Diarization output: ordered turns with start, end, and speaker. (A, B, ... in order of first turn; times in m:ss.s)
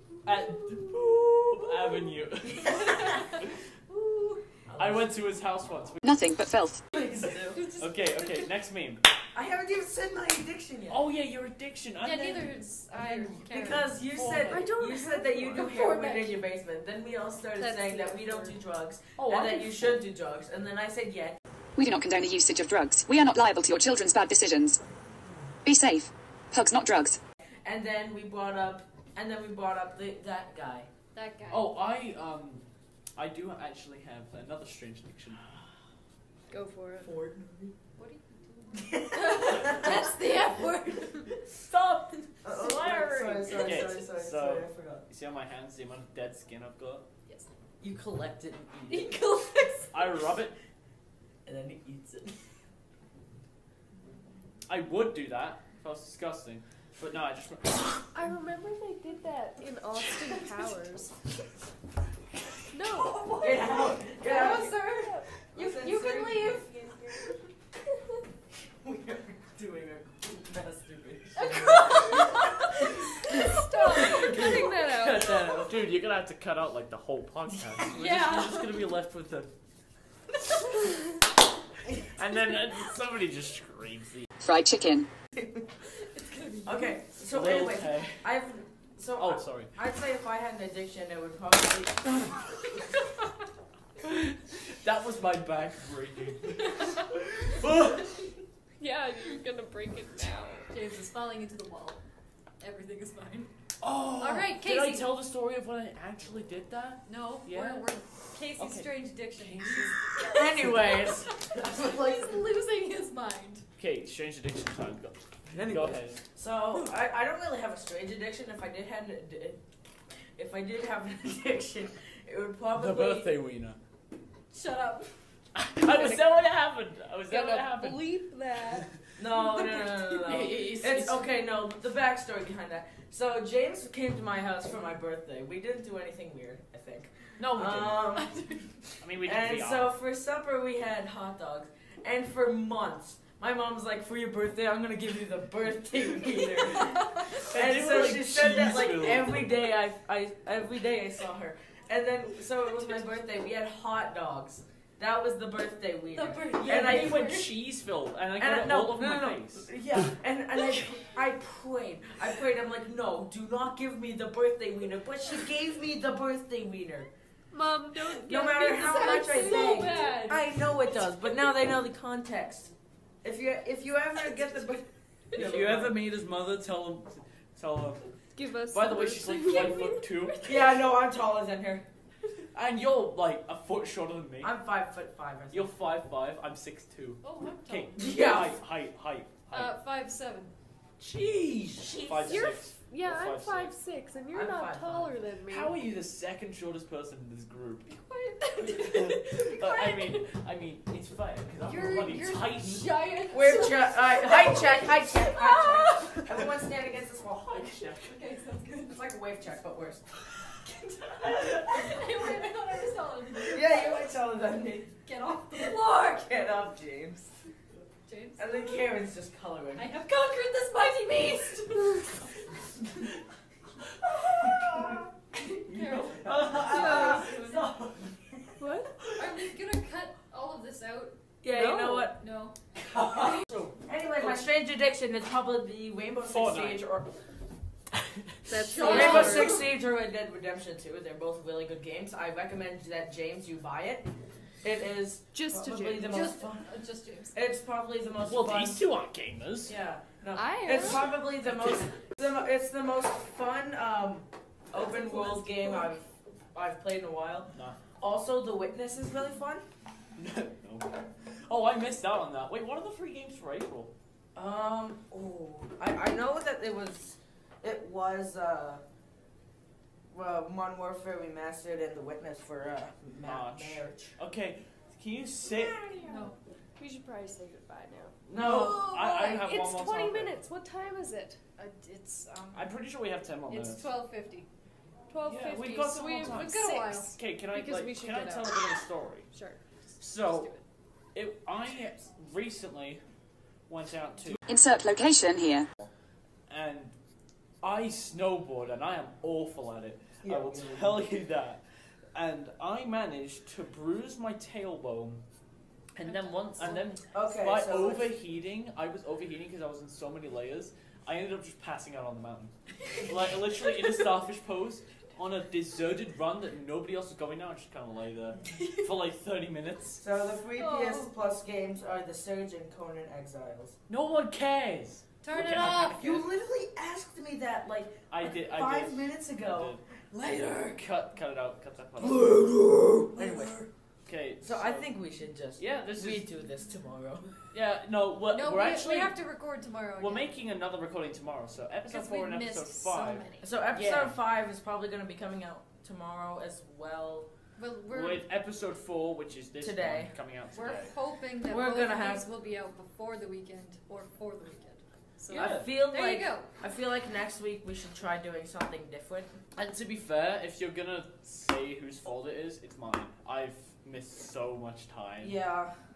0:00.2-0:03.5 A
0:00.3-0:01.6 B
0:02.5-0:03.3 C
0:02.6-0:04.4 D
0:04.7-0:05.2 C
0:04.8-0:06.0 A
0:06.0-0:06.8 E
0:06.9-0:07.6 C
0:07.5-0:08.5 D
0:07.8-0:09.0 A
0:09.3-0:11.1 C
0:10.9-0:13.5 A
0:12.0-0:13.9 D
0:13.4-0:21.4 C
0:14.1-0:14.6 A
0:14.4-0:15.7 B
0:15.5-0:16.4 D
0:17.6-0:18.6 B
0:19.2-0:20.0 A
0:21.8-0:24.8 E
0:25.6-0:27.2 E
0:27.6-0:30.9 C
0:31.1-0:31.8 D
0:31.5-0:32.6 A
0:33.2-0:35.4 A
0:36.5-0:37.1 B
0:37.0-0:37.7 C
0:38.0-0:41.4 D
0:38.7-0:40.0 C
0:41.6-0:47.0 A
0:42.4-0:45.0 C
0:47.8-0:49.2 C
0:48.9-0:50.0 D
0:49.9-0:50.6 A
0:51.4-0:52.4 C
0:54.7-0:58.0 A
0:58.1-1:01.1 B
1:02.7-1:03.6 B
1:03.0-1:06.6 D
1:03.4-1:04.8 C
1:04.3-1:07.2 B
1:05.5-1:06.7 C
1:08.8-1:12.4 C
1:11.4-1:12.4 D
1:11.4-1:12.4 B
1:13.0-1:13.4 C
1:13.3-1:15.5 B
1:14.0-1:19.5 A
1:14.1-1:14.6 C
1:17.9-1:18.8 D
1:22.1-1:24.3 A
1:24.4-1:25.1 E
1:26.0-1:27.0 D
1:26.6-1:32.3 C
1:27.3-1:28.2 A
1:29.2-1:29.7 A
1:34.0-1:38.2 A
1:38.8-1:40.7 B
1:40.7-1:42.0 D
1:42.6-1:43.5 D
1:43.8-1:47.9 A
1:44.2-1:45.1 D
1:47.0-1:53.6 D
1:48.6-1:50.0 A
1:50.2-1:52.4 C
1:50.5-1:50.8 A
1:53.8-1:56.2 A
1:55.5-1:59.6 C
2:00.4-2:03.3 C
2:02.7-2:03.8 A
2:04.5-2:05.1 D
2:05.5-2:08.2 A
2:05.8-2:06.3 B
2:07.3-2:08.8 B
2:09.2-2:18.4 C
2:09.4-2:10.5 D
2:10.2-2:11.2 A
2:17.4-2:18.0 A
2:18.1-2:18.8 D
2:19.0-2:19.9 A
2:19.2-2:37.4 C
2:26.7-2:27.3 D
2:27.3-2:29.5 A
2:36.1-2:37.5 D
2:36.6-2:39.7 A
2:38.4-2:47.1 C
2:47.5-2:50.2 B
2:48.3-2:56.0 C
2:48.7-2:50.4 D
2:55.3-2:58.0 A
2:58.4-3:00.5 B
2:58.7-3:00.7 A
3:00.4-3:01.8 C
3:02.5-3:04.5 A
3:04.4-3:05.7 C
3:05.5-3:09.8 A
3:07.2-3:08.3 D
3:08.0-3:08.6 C
3:09.5-3:10.5 D
3:11.0-3:12.4 C
3:11.7-3:13.7 A
3:12.2-3:15.7 B
3:14.3-3:15.2 C
3:15.5-3:17.9 A
3:17.9-3:20.2 D
3:18.6-3:23.0 A
3:21.6-3:26.3 D
3:23.3-3:27.9 C
3:27.5-3:28.2 A
3:28.0-3:29.0 D
3:28.8-3:30.0 C
3:30.9-3:34.1 D
3:31.4-3:32.3 C
3:33.4-3:37.3 C
3:35.0-3:36.4 D
3:38.0-3:38.8 D
3:38.4-3:39.9 C
3:39.8-3:42.3 D
3:44.2-3:45.0 C
3:45.5-3:47.7 D
3:45.7-3:48.5 C
3:46.4-3:46.8 A
3:46.7-3:47.4 B
3:48.6-3:48.9 B
3:49.1-3:51.1 D
3:51.4-3:52.2 C
3:51.5-3:52.1 B
3:52.2-3:52.5 D
3:52.8-3:54.4 A
3:53.2-3:56.9 C
3:56.2-3:57.1 A
3:57.9-3:58.5 A
3:58.5-3:59.6 B
3:58.7-3:59.7 D
3:58.8-4:04.1 C
4:04.6-4:06.7 C
4:05.3-4:06.2 B
4:06.1-4:07.4 D
4:07.3-4:08.8 C
4:08.2-4:09.8 A
4:09.6-4:19.6 C
4:10.3-4:11.3 B
4:11.4-4:11.8 A
4:14.9-4:15.9 B
4:17.5-4:17.8 A
4:20.2-4:23.9 A
4:24.3-4:28.8 C
4:30.1-4:34.2 C
4:33.2-4:35.8 A
4:36.0-4:36.4 D
4:36.8-4:38.1 B
4:38.3-4:40.4 A
4:38.3-4:39.0 C
4:38.8-4:41.4 B
4:41.6-4:42.7 D
4:42.5-4:43.9 A
4:43.5-4:44.5 D
4:45.1-4:48.7 B
4:45.2-4:49.3 A
4:46.2-4:47.2 D
4:49.3-4:49.6 B
4:50.0-4:50.5 A
4:50.3-4:50.5 B
4:51.1-4:53.0 A
4:53.7-4:54.4 A
4:54.5-4:55.6 E
4:56.5-4:56.9 A
4:57.6-5:01.6 A
5:00.2-5:01.0 C
5:02.1-5:05.2 A
5:05.9-5:20.0 A
5:06.2-5:06.8 B
5:07.1-5:08.1 C
5:20.0-5:23.7 C
5:20.6-5:21.1 D
5:23.9-5:26.2 A
5:25.2-5:26.2 D
5:25.3-5:30.7 C
5:28.1-5:29.8 A
5:30.5-5:32.5 A
5:32.0-5:33.7 C
5:34.0-5:35.0 A
5:34.4-5:37.4 C
5:35.6-5:36.3 A
5:37.5-5:39.2 A
5:38.3-5:40.4 D
5:40.0-5:44.2 A
5:41.8-5:43.5 D
5:43.4-5:47.3 C
5:47.6-5:48.2 D
5:47.9-5:50.9 A
5:49.6-5:50.1 C
5:50.5-5:56.5 D
5:51.4-5:52.3 C
5:55.3-5:55.7 A
5:55.3-5:59.4 C
5:59.5-6:05.4 A
6:05.2-6:05.7 C